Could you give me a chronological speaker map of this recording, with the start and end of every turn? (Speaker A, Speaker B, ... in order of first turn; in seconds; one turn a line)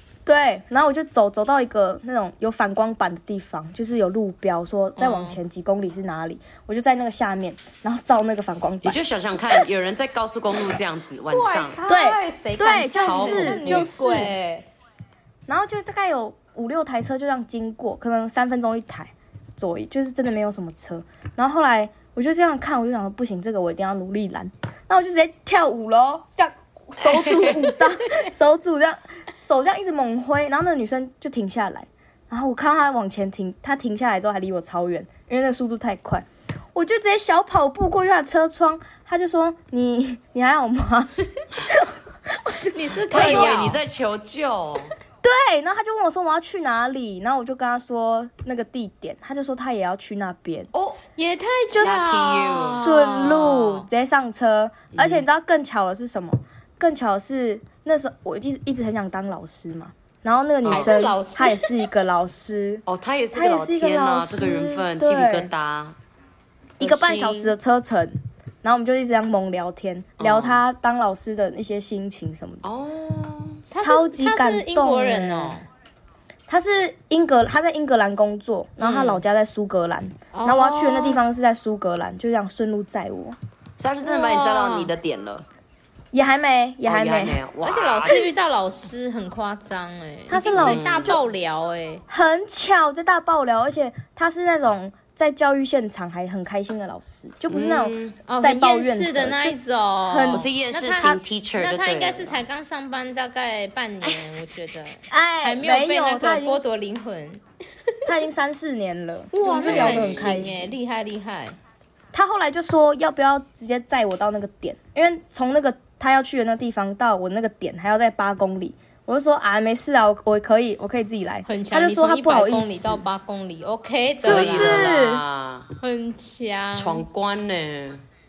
Speaker A: 0.2-9.0
Speaker B: 5.0-5.4
Speaker C: 8.8-11.8
Speaker B: 11.3-14.7
Speaker A: 11.9-14.3
Speaker C: 12.9-14.2
Speaker A: 15.5-41.1
Speaker C: 27.0-27.8
Speaker A: 41.7-43.6
Speaker B: 42.6-43.8
Speaker C: 43.1-44.9
Speaker A: 45.2-50.7
Speaker C: 50.7-51.0
Speaker B: 51.1-53.9
Speaker A: 51.7-65.5
Speaker C: 51.7-52.8
Speaker C: 54.9-55.2
Speaker B: 60.6-61.8
Speaker C: 62.9-66.0
Speaker B: 66.8-67.5
Speaker A: 66.8-72.6
Speaker C: 70.2-70.6
Speaker C: 72.6-73.6
Speaker B: 73.7-75.6
Speaker A: 73.7-75.6
Speaker A: 76.5-83.3
Speaker C: 78.8-79.2
Speaker B: 80.3-81.2
Speaker C: 83.8-85.5
Speaker B: 84.0-84.9
Speaker A: 86.1-87.4
Speaker C: 86.8-88.3
Speaker B: 87.6-92.0
Speaker A: 90.3-91.2
Speaker C: 90.5-91.2
Speaker A: 92.1-100.5
Speaker C: 97.5-98.2
Speaker B: 98.3-107.9
Speaker C: 100.3-102.4
Speaker A: 105.1-106.6
Speaker A: 108.0-110.7
Speaker B: 109.3-111.6
Speaker C: 109.6-110.4
Speaker A: 112.1-123.0
Speaker B: 121.5-125.0
Speaker A: 124.2-125.2
Speaker C: 124.2-125.7
Speaker B: 125.8-127.0
Speaker C: 126.7-128.0